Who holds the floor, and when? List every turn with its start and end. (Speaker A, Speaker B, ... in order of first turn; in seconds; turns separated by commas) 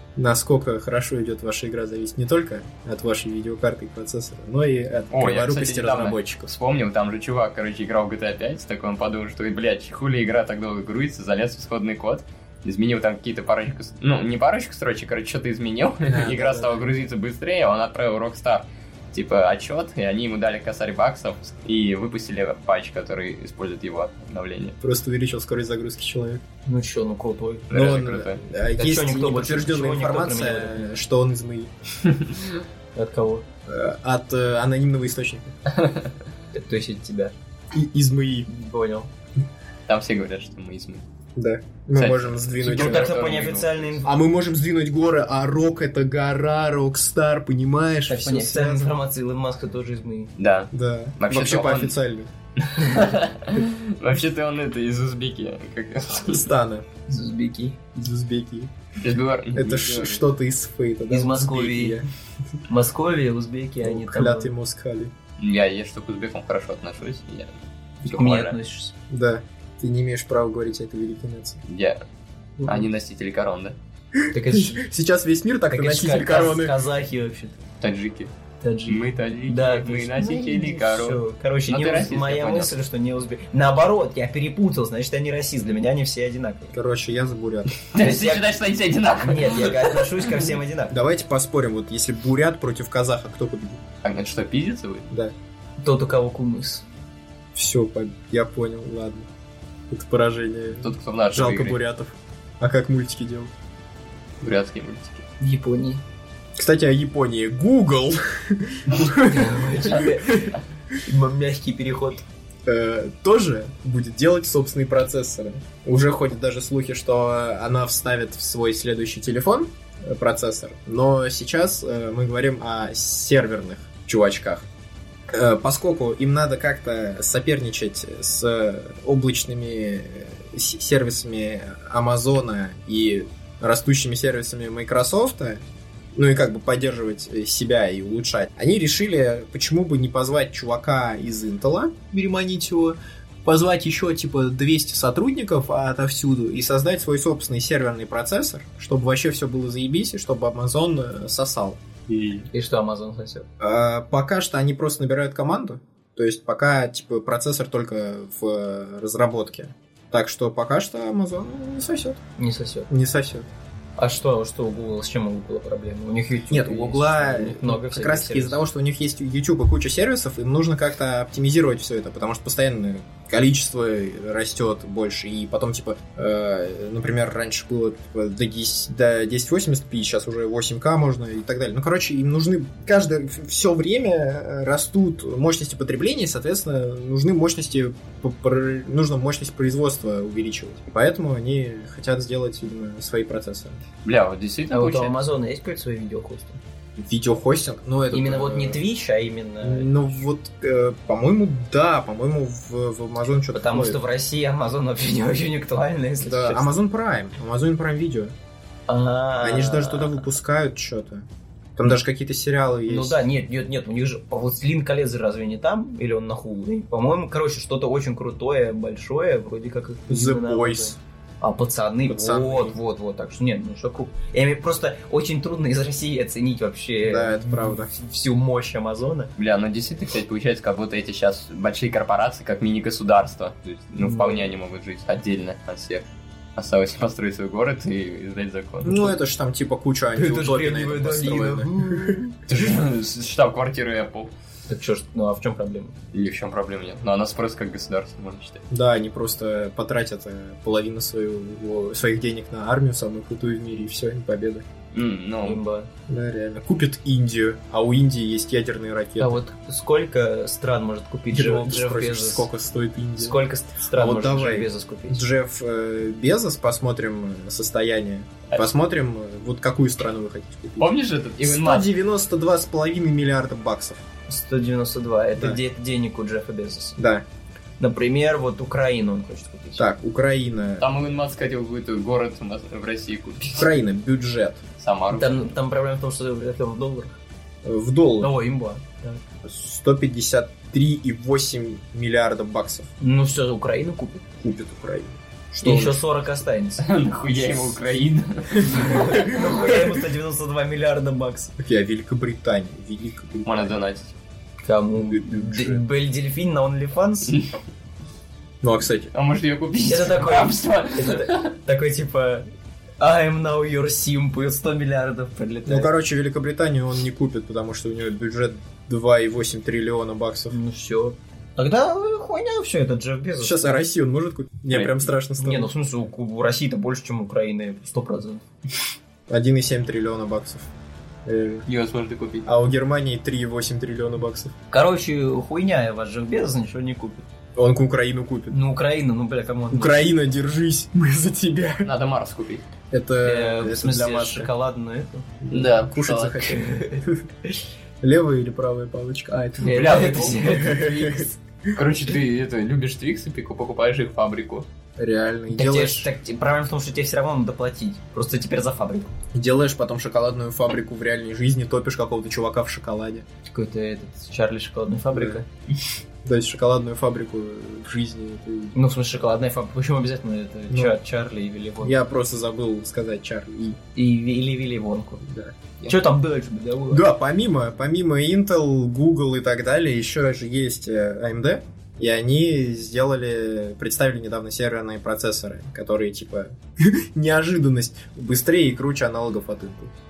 Speaker A: 0.2-6.5, Speaker B: 5.1-24.8, Speaker A: 16.1-16.9, Speaker A: 24.8-26.4, Speaker C: 26.7-27.7, Speaker B: 27.7-28.4, Speaker A: 27.7-31.7, Speaker C: 28.8-30.9, Speaker B: 32.0-32.6, Speaker C: 33.0-33.5, Speaker A: 33.7-35.5, Speaker B: 35.7-36.1, Speaker C: 36.5-37.3, Speaker A: 37.7-38.5, Speaker C: 38.5-39.1, Speaker B: 39.9-41.0, Speaker A: 41.4-43.2, Speaker B: 42.0-43.9, Speaker C: 42.6-44.1, Speaker A: 44.0-48.9, Speaker C: 48.1-50.3, Speaker B: 50.4-52.0, Speaker A: 50.7-52.3, Speaker B: 52.6-56.5, Speaker A: 56.3-56.9, Speaker C: 57.1-57.8, Speaker A: 58.0-58.7, Speaker B: 59.0-60.2, Speaker A: 59.5-62.1, Speaker C: 61.1-62.0, Speaker C: 62.7-64.5, Speaker A: 63.8-65.1, Speaker B: 65.4-68.5, Speaker C: 68.0-68.9, Speaker A: 69.1-71.6, Speaker B: 71.7-72.0, Speaker C: 72.6-72.8, Speaker B: 72.7-73.8, Speaker A: 74.2-76.8, Speaker C: 74.3-74.8, Speaker C: 75.7-77.6, Speaker B: 77.8-78.3, Speaker C: 78.6-86.7, Speaker B: 78.9-82.7, Speaker A: 86.7-87.7, Speaker B: 87.9-90.3, Speaker C: 88.0-88.5, Speaker C: 89.2-90.9, Speaker A: 90.9-93.8, Speaker B: 94.0-95.1, Speaker C: 95.8-96.8, Speaker A: 97.5-99.3, Speaker A: 99.9-103.5, Speaker B: 100.8-101.8, Speaker B: 104.4-105.2, Speaker C: 105.4-106.0, Speaker A: 106.6-110.5, Speaker C: 109.2-112.2, Speaker A: 112.7-124.7, Speaker A: 125.3-135.6, Speaker A: 136.1-152.5, Speaker C: 152.5-153.5, Speaker A: 153.6-162.2, Speaker C: 162.4-162.9, Speaker A: 162.9-163.5, Speaker C: 164.0-168.6, Speaker A: 166.5-193.8, Speaker B: 194.1-195.2, Speaker C: 194.7-196.6, Speaker A: 197.0-198.8, Speaker C: 198.1-199.9, Speaker A: 199.6-204.0, Speaker C: 203.5-206.7, Speaker A: 206.2-208.3, Speaker C: 208.9-210.2, Speaker A: 209.4-213.2, Speaker C: 212.9-229.3, Speaker A: 220.1-221.0, Speaker A: 222.1-222.8, Speaker A: 227.1-227.9, Speaker B: 229.4-236.1, Speaker C: 234.0-234.5, Speaker B: 236.6-239.1, Speaker A: 238.8-242.2, Speaker C: 240.2-242.4, Speaker B: 242.5-244.3, Speaker C: 244.7-246.0, Speaker B: 246.1-248.6, Speaker A: 248.7-254.7, Speaker B: 254.9-255.6, Speaker C: 255.4-255.9, Speaker A: 256.1-259.4, Speaker C: 259.2-262.5, Speaker A: 261.3-263.4, Speaker C: 263.2-265.2, Speaker A: 263.9-274.0, Speaker B: 270.8-271.9, Speaker C: 274.3-277.0, Speaker A: 277.0-277.2, Speaker C: 277.8-279.9, Speaker A: 279.8-280.9, Speaker B: 280.8-283.7, Speaker A: 283.5-284.6, Speaker B: 284.8-285.6, Speaker C: 285.1-287.1, Speaker A: 287.6-288.3, Speaker C: 288.2-289.2, Speaker A: 289.4-292.9, Speaker C: 293.0-294.3, Speaker A: 294.4-296.0, Speaker C: 295.6-296.9, Speaker B: 296.8-299.8, Speaker C: 298.6-301.5, Speaker A: 301.6-303.8, Speaker B: 303.4-304.1, Speaker C: 304.6-307.4, Speaker A: 305.0-305.8, Speaker A: 308.6-309.1, Speaker B: 309.1-311.6, Speaker C: 309.8-312.5, Speaker C: 313.0-315.9, Speaker A: 315.7-320.6, Speaker C: 320.5-323.8, Speaker A: 323.4-325.7, Speaker B: 324.7-325.1, Speaker C: 325.4-328.4, Speaker A: 329.3-330.7, Speaker A: 331.2-331.6, Speaker B: 331.7-332.5, Speaker A: 332.4-334.5, Speaker C: 334.7-337.2, Speaker A: 337.6-338.6, Speaker C: 338.5-340.1, Speaker A: 339.7-341.9, Speaker B: 341.9-342.6, Speaker A: 342.9-344.5, Speaker C: 343.2-345.3, Speaker A: 345.4-347.3, Speaker B: 345.5-346.6, Speaker C: 346.5-347.1, Speaker A: 348.0-351.7, Speaker C: 349.6-351.4, Speaker B: 349.6-350.7, Speaker B: 351.8-354.7, Speaker A: 355.0-356.1, Speaker C: 355.5-359.1, Speaker A: 359.3-363.3, Speaker C: 363.5-365.5, Speaker A: 365.1-365.4, Speaker A: 366.2-368.8, Speaker C: 368.7-371.9, Speaker A: 370.7-370.9, Speaker A: 371.8-373.8, Speaker C: 373.9-375.3, Speaker A: 375.3-375.5, Speaker C: 375.8-377.1, Speaker A: 376.9-389.9